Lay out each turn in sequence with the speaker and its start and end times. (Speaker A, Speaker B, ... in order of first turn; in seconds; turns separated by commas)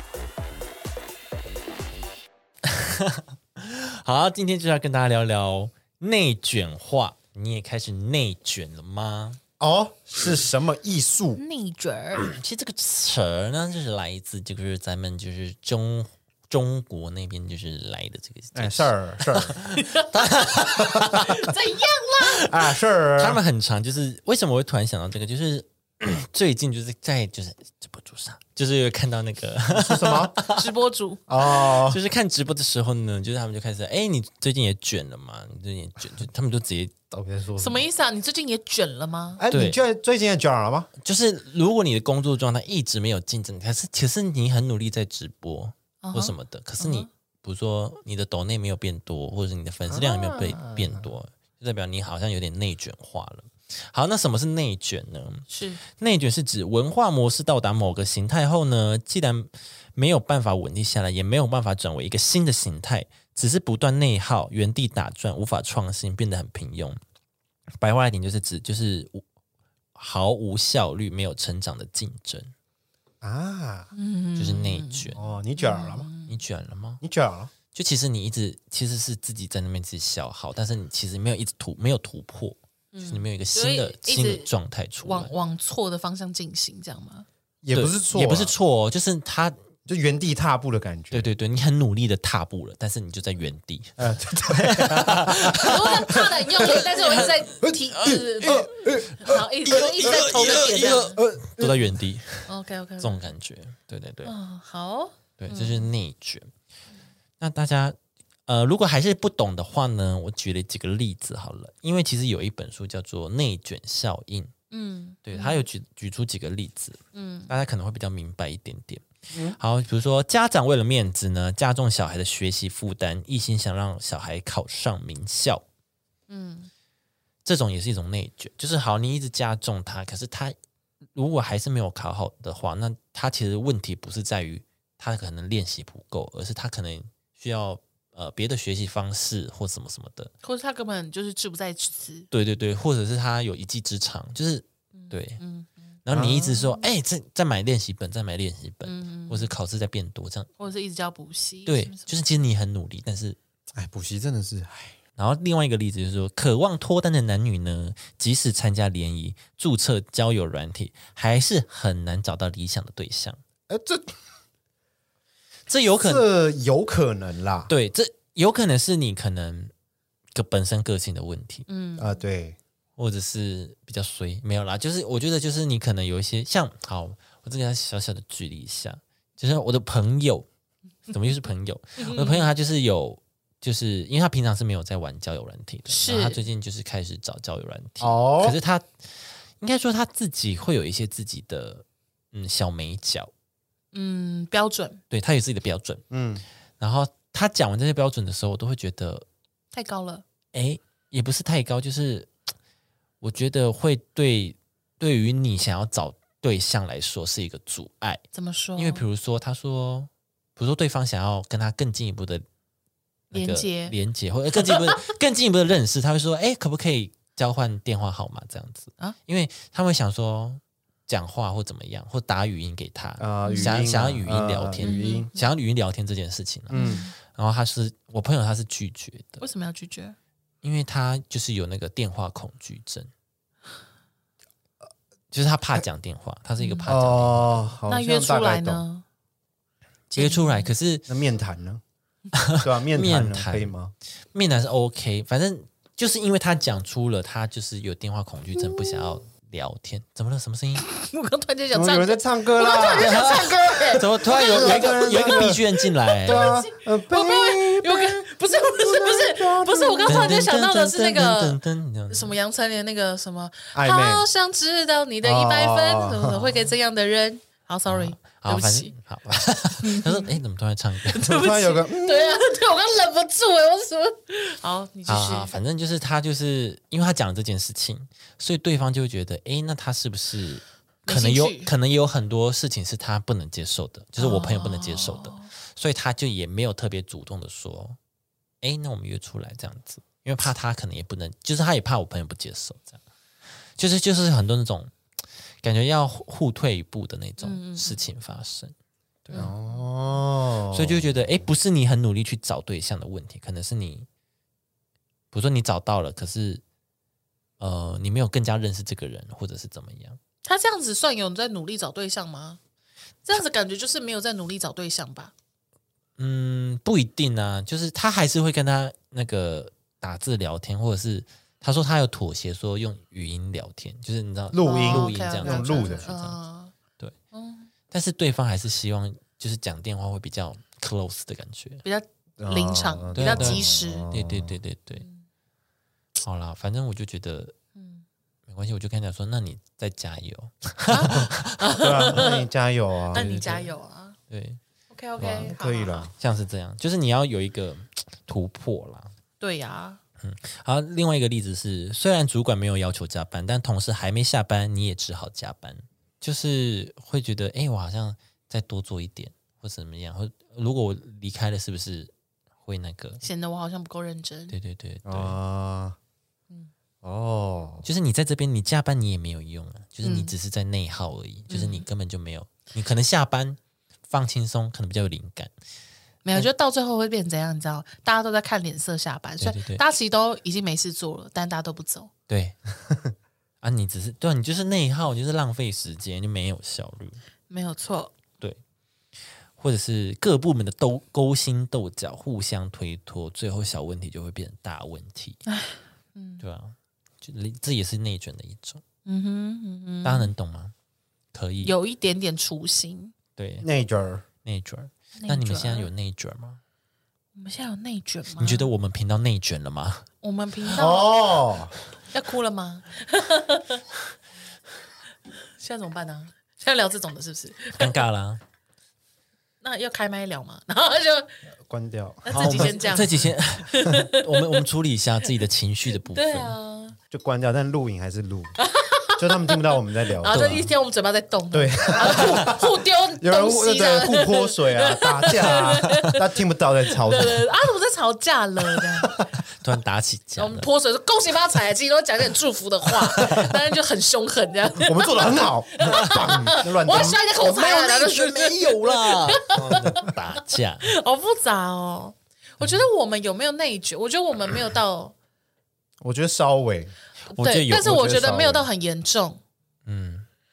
Speaker A: 2.6-9.4, Speaker B: 9.6-11.4, Speaker C: 11.3-12.3, Speaker A: 12.3-21.4, Speaker B: 18.5-19.6, Speaker C: 19.8-22.5, Speaker A: 22.2-22.5, Speaker B: 22.4-23.4, Speaker A: 23.2-30.6, Speaker B: 29.7-30.4, Speaker C: 30.5-31.2, Speaker B: 31.3-32.0, Speaker A: 31.4-36.9, Speaker B: 37.1-37.9, Speaker C: 37.6-39.4, Speaker B: 39.4-40.9, Speaker A: 39.5-39.8, Speaker A: 41.0-67.0, Speaker C: 46.0-47.1, Speaker C: 50.0-50.6, Speaker B: 50.6-51.0, Speaker C: 55.5-55.8, Speaker A: 67.8-69.2, Speaker A: 69.9-72.5, Speaker B: 73.2-73.9, Speaker C: 73.9-76.4, Speaker A: 74.4-75.2, Speaker B: 75.1-76.1, Speaker A: 76.3-77.0, Speaker B: 77.0-77.5, Speaker A: 77.7-85.3, Speaker C: 82.9-84.5, Speaker C: 85.0-87.3, Speaker B: 87.6-88.5, Speaker A: 87.7-89.6, Speaker B: 89.8-91.3, Speaker A: 91.1-97.3, Speaker B: 94.0-102.0, Speaker C: 95.6-101.2, Speaker A: 100.0-104.3, Speaker C: 102.5-103.2, Speaker C: 104.2-105.9, Speaker A: 105.4-106.5, Speaker A: 107.4-114.5, Speaker C: 114.7-115.6, Speaker A: 115.2-125.6, Speaker C: 117.1-117.5, Speaker B: 119.3-119.6, Speaker C: 126.3-126.7, Speaker A: 127.4-130.5, Speaker A: 131.1-140.3, Speaker C: 140.4-142.3, Speaker A: 142.3-145.4, Speaker C: 144.9-145.7, Speaker A: 146.0-150.5, Speaker B: 146.1-146.8, Speaker C: 148.8-149.5, Speaker C: 150.6-152.2, Speaker A: 151.7-153.4, Speaker B: 153.7-155.0, Speaker A: 155.2-163.4, Speaker B: 163.7-164.1, Speaker A: 165.7-166.3, Speaker B: 166.0-167.7, Speaker A: 167.7-169.7, Speaker A: 170.3-171.7, Speaker C: 171.7-172.2, Speaker B: 172.0-172.6, Speaker A: 173.0-180.4, Speaker A: 181.1-193.3, Speaker C: 182.0-182.4, Speaker C: 185.9-186.4, Speaker B: 188.0-188.6, Speaker C: 193.9-195.0, Speaker A: 195.1-196.0, Speaker B: 196.1-196.4, Speaker A: 196.8-199.2, Speaker C: 199.7-200.2, Speaker A: 200.5-202.3, Speaker A: 203.2-208.2, Speaker C: 208.3-209.0, Speaker A: 208.8-212.4, Speaker C: 213.3-213.9, Speaker A: 213.3-229.4, Speaker C: 214.6-214.9, Speaker B: 223.2-225.2, Speaker C: 223.4-223.8, Speaker C: 224.8-225.3, Speaker C: 226.7-227.1, Speaker B: 226.7-227.0, Speaker C: 229.4-230.2, Speaker A: 230.6-233.1, Speaker A: 235.3-237.7, Speaker C: 236.6-236.9, Speaker B: 236.8-238.8, Speaker C: 237.9-239.0, Speaker A: 240.1-241.1, Speaker C: 240.2-240.7, Speaker B: 241.1-241.8, Speaker A: 242.3-243.7, Speaker B: 242.6-243.9, Speaker A: 244.3-250.8, Speaker C: 250.8-255.6, Speaker B: 251.7-255.6, Speaker A: 252.9-256.6, Speaker B: 256.2-260.4, Speaker C: 256.2-261.6, Speaker A: 260.1-262.3, Speaker C: 262.1-268.9, Speaker B: 263.7-264.2, Speaker B: 265.2-266.7, Speaker A: 267.9-271.4, Speaker C: 269.8-270.4, Speaker C: 271.1-275.6, Speaker B: 271.2-272.5, Speaker A: 275.1-288.0, Speaker C: 281.1-281.7, Speaker C: 284.2-285.5, Speaker A: 288.6-293.0, Speaker A: 293.8-294.9, Speaker A: 295.6-298.7, Speaker C: 297.4-298.0, Speaker C: 299.3-299.9, Speaker B: 299.3-301.4, Speaker A: 300.7-304.1, Speaker A: 305.3-306.6, Speaker A: 307.6-310.2, Speaker C: 310.4-312.6, Speaker C: 313.2-315.3, Speaker A: 316.2-326.4, Speaker B: 324.5-326.0, Speaker C: 324.6-326.7, Speaker C: 327.3-327.7, Speaker A: 327.9-331.8, Speaker C: 331.8-334.1, Speaker B: 332.4-334.6, Speaker A: 333.1-335.0, Speaker C: 334.9-335.2, Speaker A: 336.2-337.6, Speaker C: 337.7-338.0, Speaker A: 338.5-341.6, Speaker C: 340.9-342.5, Speaker B: 341.1-343.3, Speaker C: 343.1-344.2, Speaker A: 343.1-343.7, Speaker A: 344.3-344.6, Speaker C: 344.9-346.1, Speaker A: 345.2-345.5, Speaker B: 345.2-346.1, Speaker A: 346.1-349.1, Speaker C: 349.4-350.0, Speaker A: 350.2-362.1, Speaker A: 362.6-363.2, Speaker C: 363.2-364.6, Speaker A: 364.5-365.4, Speaker B: 365.0-366.0, Speaker B: 367.0-367.9, Speaker A: 367.8-375.5, Speaker C: 370.0-370.3, Speaker C: 371.5-371.9, Speaker C: 376.2-382.1, Speaker A: 379.4-379.8, Speaker A: 382.3-382.6, Speaker A: 383.6-387.2, Speaker C: 387.5-388.1, Speaker A: 389.6-395.4, Speaker C: 395.4-396.4, Speaker A: 396.4-398.8, Speaker C: 399.1-400.3, Speaker A: 400.0-400.7, Speaker A: 401.3-401.7, Speaker C: 401.6-403.1, Speaker A: 403.4-403.7, Speaker B: 403.6-404.2, Speaker A: 404.4-406.6, Speaker C: 405.2-405.9, Speaker C: 407.3-408.7, Speaker A: 408.4-410.0, Speaker C: 410.2-411.3, Speaker B: 410.7-411.7, Speaker C: 412.1-413.8, Speaker C: 415.5-418.0, Speaker A: 417.7-418.4, Speaker C: 419.6-421.3, Speaker B: 421.6-422.8, Speaker C: 422.2-424.5, Speaker A: 422.3-426.6, Speaker C: 426.1-427.0, Speaker B: 427.1-428.6, Speaker C: 428.6-436.3, Speaker B: 429.2-430.7, Speaker A: 430.3-430.7, Speaker B: 431.5-437.5, Speaker A: 432.1-432.5, Speaker A: 435.5-436.1, Speaker C: 436.9-439.2, Speaker A: 439.6-440.7, Speaker C: 440.4-450.1, Speaker A: 443.2-443.4, Speaker B: 444.8-447.9, Speaker A: 446.0-450.9, Speaker B: 449.4-450.1, Speaker C: 450.8-455.1, Speaker B: 456.0-456.9, Speaker A: 457.3-458.2, Speaker C: 457.4-459.4, Speaker B: 457.8-458.7, Speaker A: 459.9-460.2